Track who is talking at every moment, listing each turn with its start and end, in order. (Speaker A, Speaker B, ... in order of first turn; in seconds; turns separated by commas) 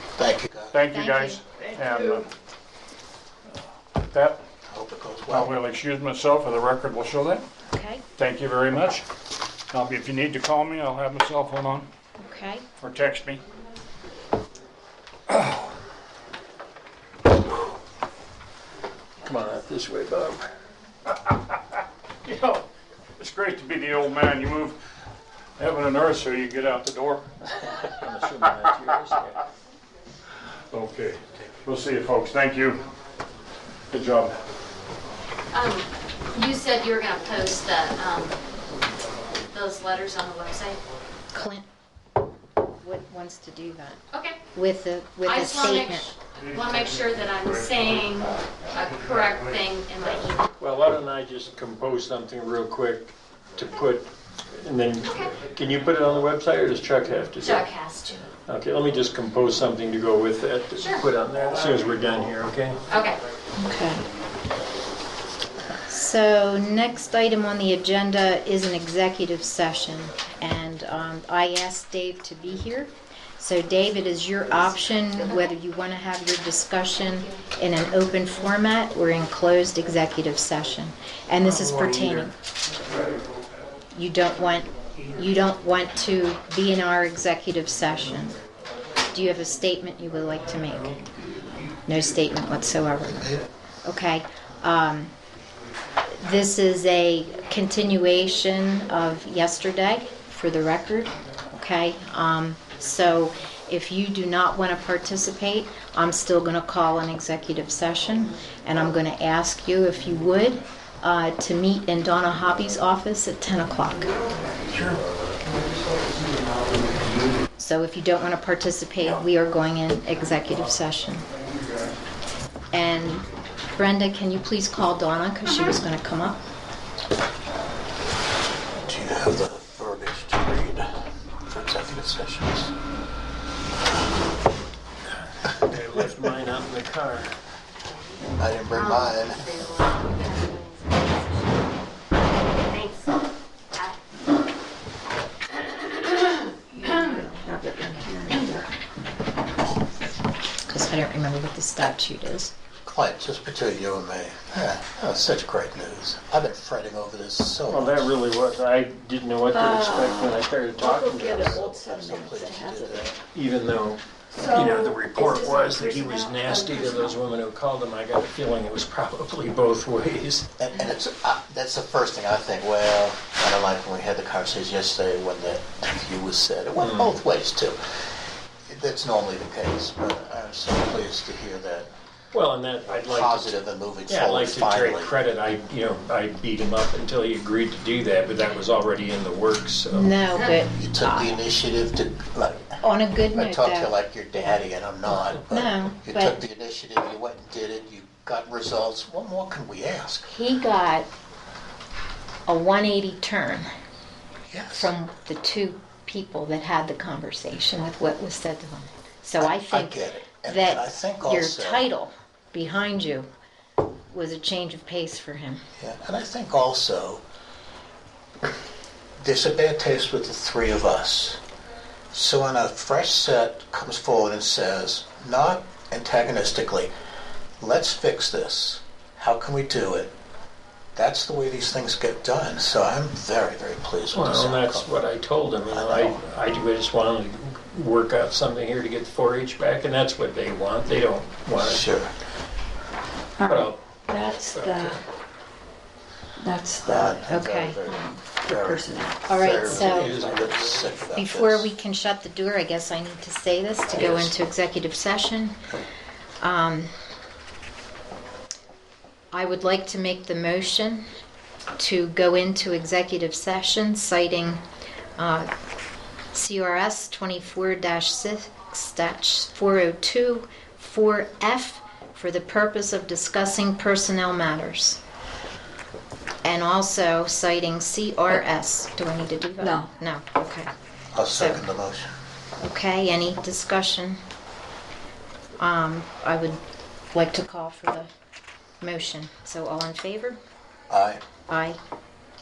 Speaker A: 0.2-0.8, Speaker B: 0.7-2.2, Speaker C: 0.9-1.4, Speaker B: 4.1-4.4, Speaker A: 4.7-5.5, Speaker B: 5.3-7.5, Speaker C: 7.7-8.0, Speaker B: 8.2-9.0, Speaker B: 9.7-11.9, Speaker C: 12.2-12.6, Speaker B: 12.8-13.4, Speaker D: 19.2-20.5, Speaker B: 22.2-22.6, Speaker B: 23.2-24.8, Speaker B: 25.6-27.3, Speaker D: 27.5-29.4, Speaker B: 30.7-32.8, Speaker B: 33.9-34.4, Speaker E: 35.5-38.4, Speaker E: 39.5-40.8, Speaker C: 41.3-41.7, Speaker C: 42.8-44.0, Speaker E: 44.1-44.4, Speaker C: 44.5-46.1, Speaker E: 45.2-50.5, Speaker B: 46.3-48.3, Speaker D: 50.6-57.7, Speaker E: 55.0-55.4, Speaker E: 57.4-58.3, Speaker D: 58.5-62.8, Speaker E: 60.8-61.0, Speaker E: 62.9-63.2, Speaker C: 63.6-64.0, Speaker C: 65.8-82.3, Speaker D: 81.5-82.2, Speaker C: 83.9-88.3, Speaker C: 89.1-91.0, Speaker C: 91.8-93.3, Speaker A: 93.0-93.5, Speaker C: 93.8-95.1, Speaker C: 96.2-114.1, Speaker A: 114.7-115.0, Speaker C: 117.6-121.2, Speaker C: 122.7-126.4, Speaker A: 128.8-130.9, Speaker A: 131.5-132.7, Speaker D: 135.5-137.3, Speaker A: 138.4-139.4, Speaker E: 138.7-141.8, Speaker E: 142.7-143.2, Speaker F: 146.7-148.7, Speaker E: 146.8-147.2, Speaker C: 150.7-152.5, Speaker A: 152.8-158.2, Speaker D: 157.7-161.7, Speaker F: 159.5-163.1, Speaker A: 161.0-163.2, Speaker D: 163.3-170.5, Speaker F: 164.4-167.2, Speaker A: 170.6-177.8, Speaker D: 176.8-177.1, Speaker A: 178.7-181.9, Speaker D: 182.3-190.1, Speaker A: 182.9-185.2, Speaker C: 189.9-191.4, Speaker A: 190.8-192.8, Speaker C: 192.8-193.9, Speaker A: 193.3-200.3, Speaker C: 195.5-196.4, Speaker C: 200.3-201.1, Speaker C: 202.5-203.7, Speaker A: 204.5-204.9, Speaker C: 204.7-213.2, Speaker A: 209.4-211.8, Speaker C: 214.1-215.6, Speaker A: 215.8-217.2, Speaker A: 219.2-221.4, Speaker A: 222.1-226.9, Speaker A: 227.6-230.1, Speaker A: 230.9-235.0, Speaker D: 234.1-241.8, Speaker A: 235.7-236.2, Speaker A: 241.6-242.1, Speaker F: 243.4-245.0, Speaker D: 243.4-245.0, Speaker F: 246.4-247.2, Speaker A: 246.8-251.7, Speaker C: 247.3-247.8, Speaker F: 247.9-249.2, Speaker C: 249.2-250.1, Speaker D: 249.6-250.8, Speaker C: 251.2-255.6, Speaker A: 253.9-254.3, Speaker C: 256.4-256.9, Speaker C: 259.3-261.1, Speaker C: 261.8-264.6, Speaker C: 265.2-265.5, Speaker C: 266.3-275.0, Speaker C: 276.4-280.7, Speaker F: 279.6-279.9, Speaker A: 281.1-282.1, Speaker C: 281.3-281.6, Speaker C: 282.6-284.2, Speaker C: 285.6-286.6, Speaker C: 287.1-288.1, Speaker C: 288.8-290.4, Speaker A: 290.9-291.2, Speaker C: 291.5-291.8